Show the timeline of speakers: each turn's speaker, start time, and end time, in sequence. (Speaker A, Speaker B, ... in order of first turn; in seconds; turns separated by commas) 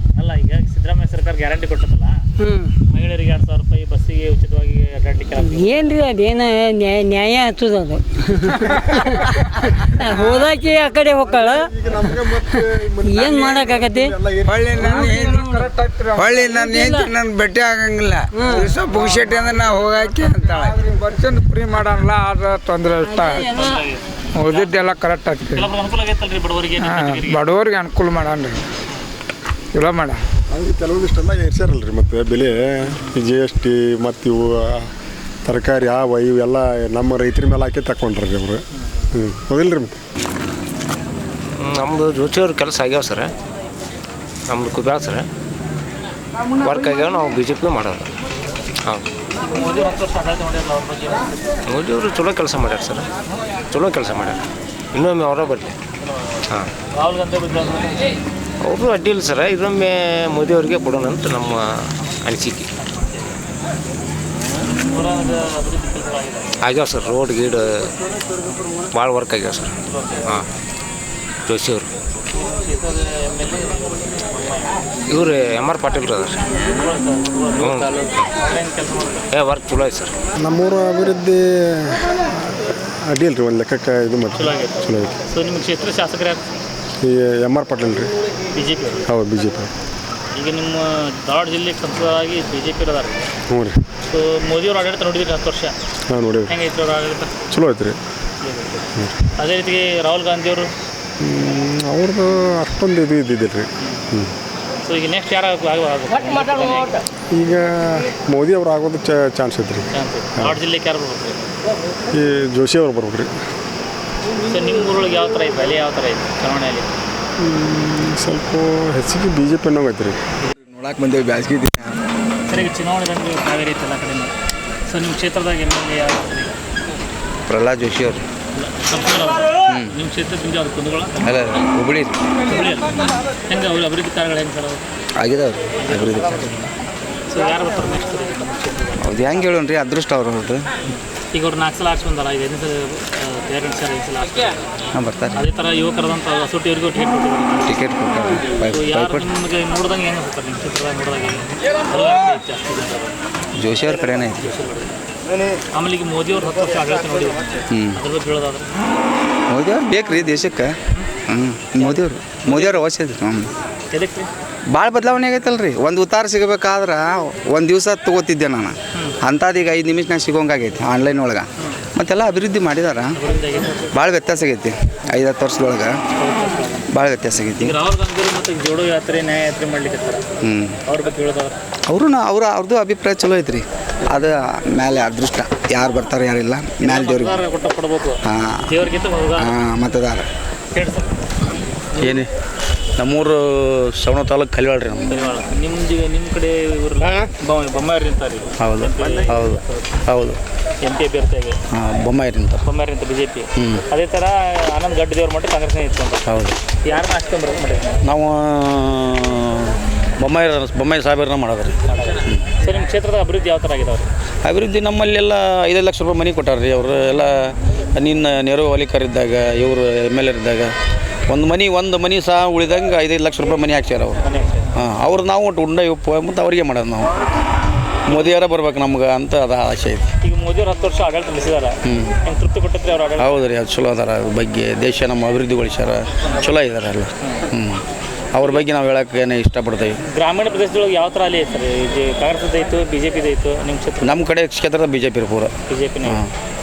Speaker A: 0.1-2.2, Speaker B: 2.4-2.7, Speaker A: 2.9-5.9, Speaker B: 5.4-14.1, Speaker C: 8.9-9.4, Speaker C: 10.1-10.5, Speaker D: 11.3-15.0, Speaker E: 14.6-15.5, Speaker C: 14.7-16.8, Speaker B: 14.9-15.7, Speaker E: 16.2-20.7, Speaker B: 16.5-17.1, Speaker B: 18.3-18.8, Speaker C: 18.5-23.5, Speaker A: 18.9-19.2, Speaker B: 23.0-23.8, Speaker A: 23.4-24.8, Speaker C: 24.3-25.7, Speaker A: 25.5-27.5, Speaker C: 26.8-28.6, Speaker C: 29.7-30.2, Speaker D: 30.5-34.9, Speaker D: 35.4-38.6, Speaker D: 39.1-39.9, Speaker F: 41.5-43.3, Speaker F: 44.5-45.3, Speaker F: 46.6-48.1, Speaker A: 49.4-51.3, Speaker F: 51.7-53.1, Speaker F: 53.7-54.4, Speaker F: 54.9-55.7, Speaker A: 56.9-58.0, Speaker F: 58.6-61.7, Speaker F: 62.2-62.7, Speaker A: 62.8-63.4, Speaker A: 64.9-66.5, Speaker F: 66.6-67.9, Speaker F: 68.9-69.7, Speaker A: 69.9-70.3, Speaker F: 71.5-71.9, Speaker A: 72.3-74.9, Speaker F: 75.1-76.4, Speaker A: 76.5-79.3, Speaker F: 77.6-78.2, Speaker F: 79.3-80.1, Speaker D: 80.4-85.1, Speaker A: 84.3-86.4, Speaker D: 87.0-88.1, Speaker A: 88.5-89.0, Speaker D: 89.1-89.7, Speaker A: 90.3-93.3, Speaker D: 93.5-93.8, Speaker A: 94.1-95.7, Speaker D: 96.1-96.5, Speaker A: 96.5-97.4, Speaker D: 97.5-98.0, Speaker A: 98.4-100.7, Speaker D: 101.2-104.3, Speaker A: 104.8-107.0, Speaker D: 107.3-110.5, Speaker A: 109.9-111.5, Speaker D: 112.1-113.3, Speaker A: 114.5-116.9, Speaker D: 117.4-120.2, Speaker E: 120.7-122.0, Speaker A: 122.5-124.3, Speaker A: 124.9-126.6, Speaker G: 127.5-127.7, Speaker A: 128.5-131.6, Speaker G: 131.2-131.9, Speaker A: 132.4-134.8, Speaker E: 135.2-136.2, Speaker A: 135.8-136.7, Speaker A: 137.3-139.3, Speaker E: 139.0-140.7, Speaker A: 140.9-144.5, Speaker E: 144.9-145.4, Speaker A: 145.3-147.8, Speaker E: 147.7-149.2, Speaker A: 148.7-153.2, Speaker E: 153.6-154.5, Speaker A: 154.3-154.9, Speaker A: 155.7-158.7, Speaker E: 157.7-158.0, Speaker E: 159.5-160.8, Speaker E: 161.3-163.5, Speaker A: 161.8-162.8, Speaker A: 163.9-164.3, Speaker E: 164.7-173.1, Speaker A: 173.2-173.9, Speaker E: 173.9-176.0, Speaker A: 176.1-176.9, Speaker E: 176.9-177.8, Speaker A: 177.6-180.3, Speaker E: 180.4-180.8, Speaker A: 180.9-181.6, Speaker E: 181.9-187.4, Speaker A: 186.8-189.6, Speaker E: 188.3-188.7, Speaker E: 189.4-190.3, Speaker A: 190.7-191.2, Speaker A: 192.0-192.2, Speaker G: 192.0-192.3, Speaker G: 193.0-195.2, Speaker A: 195.1-199.9, Speaker G: 198.6-200.4, Speaker A: 200.8-201.6, Speaker G: 201.7-202.6, Speaker A: 202.6-206.2, Speaker G: 203.6-203.8, Speaker G: 206.2-206.6, Speaker A: 206.8-208.0, Speaker G: 208.0-212.4, Speaker A: 211.9-214.1, Speaker G: 214.4-220.7, Speaker G: 221.3-224.2, Speaker A: 224.2-224.7, Speaker G: 224.8-227.1, Speaker G: 228.1-230.1, Speaker A: 230.2-233.4, Speaker G: 231.8-232.2, Speaker G: 233.2-237.8, Speaker A: 237.2-237.5, Speaker G: 238.3-240.0, Speaker A: 240.1-244.2, Speaker G: 244.0-245.5, Speaker A: 245.7-246.2, Speaker G: 246.0-246.3